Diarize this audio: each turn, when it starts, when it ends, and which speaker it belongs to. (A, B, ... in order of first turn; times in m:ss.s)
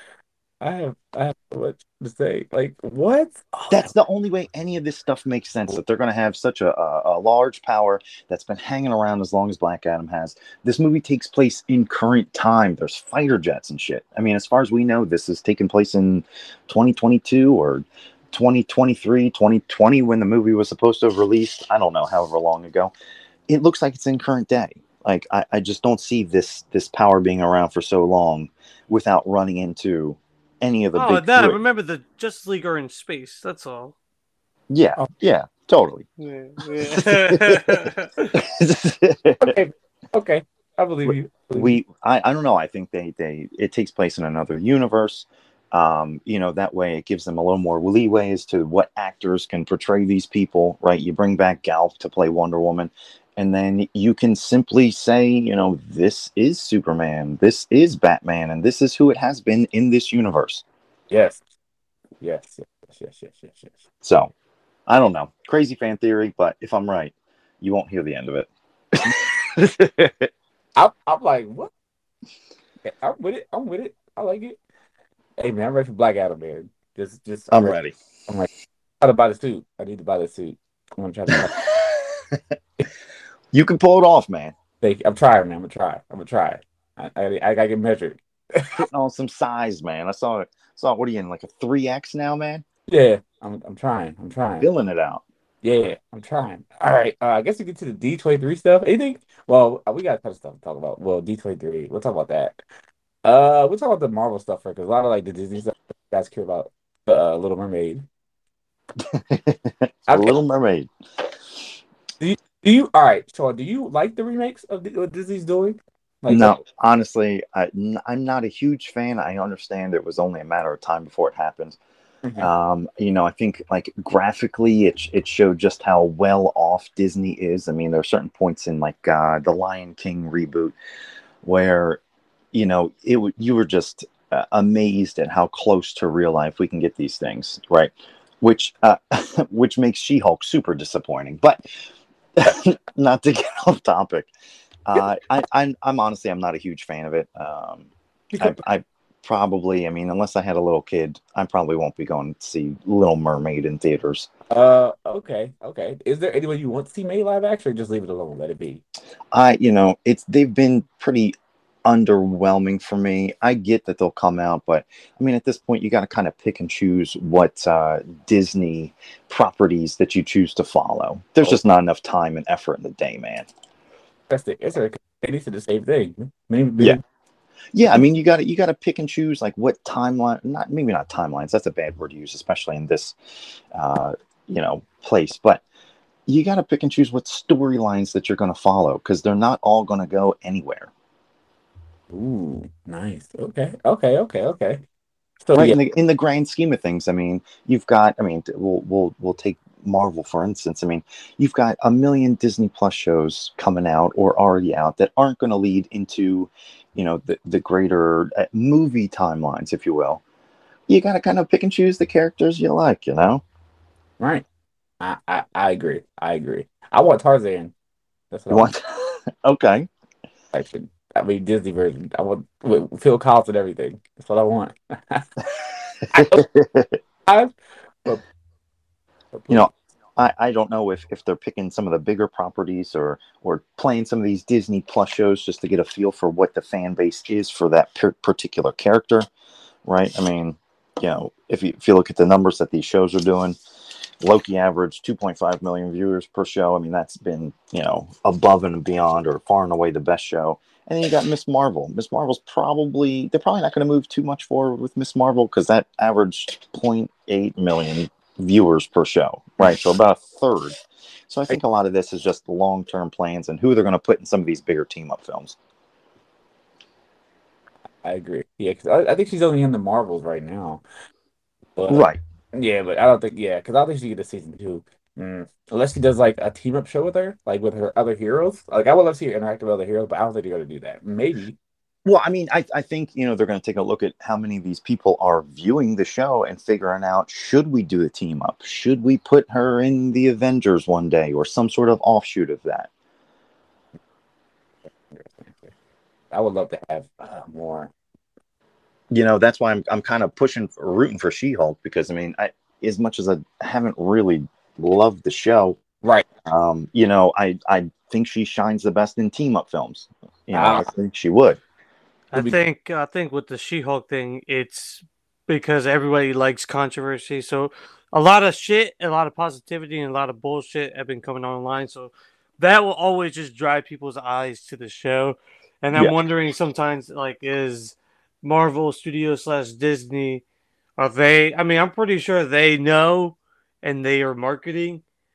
0:00.6-0:03.9 A
0:03.7-0:22.9 B
0:23.5-0:31.6 B
0:31.0-0:34.0 C
0:34.7-0:36.1 B
0:36.2-0:38.3 C
0:36.9-0:39.6 B
0:39.4-0:41.8 A
0:41.0-1:00.6 B
1:01.1-1:01.4 A
1:02.2-1:03.8 A
1:04.0-1:04.3 B
1:04.9-1:10.3 B
1:10.8-1:11.7 A
1:12.8-1:14.6 A
1:15.4-1:17.8 A
1:17.5-1:17.9 B
1:19.0-1:21.6 A
1:21.3-1:22.4 B
1:23.5-1:24.6 B
1:24.8-1:28.8 A
1:28.8-1:32.6 B
1:32.9-1:34.7 A
1:34.6-1:35.2 B
1:35.6-1:42.6 A
1:43.2-1:48.0 A
1:49.0-1:50.9 B
1:50.1-1:50.4 A
1:52.2-1:56.6 A
1:56.3-2:01.8 B
2:02.4-2:10.8 B
2:11.4-2:12.0 B
2:12.5-2:21.6 B
2:22.4-2:24.3 B
2:24.9-2:34.3 B
2:28.3-2:28.6 A
2:34.5-2:38.8 A
2:39.3-2:41.4 B
2:41.9-2:53.5 B
2:54.3-2:57.0 A
2:57.7-3:03.2 B
3:03.7-3:05.6 B
3:06.3-3:10.9 B
3:12.1-3:14.8 A
3:15.4-3:15.8 A
3:15.6-3:30.2 B
3:30.9-3:33.4 B
3:35.0-3:37.7 A
3:38.3-3:38.7 A
3:38.5-3:39.9 B
3:40.5-3:45.3 A
3:46.0-3:47.0 B
3:46.1-3:46.4 A
3:47.3-3:47.5 A
3:49.3-3:49.7 A
3:49.5-3:59.3 B
3:59.9-4:03.6 B
4:04.2-4:25.6 B
4:28.0-4:30.8 A
4:31.8-4:41.6 A
4:31.9-4:32.2 B
4:42.0-4:52.9 B
4:55.1-4:55.7 A
4:56.3-4:57.9 A
4:59.1-5:05.8 B
5:06.5-5:11.6 B
5:10.5-5:10.9 A
5:12.3-5:30.4 C
5:31.0-5:35.0 C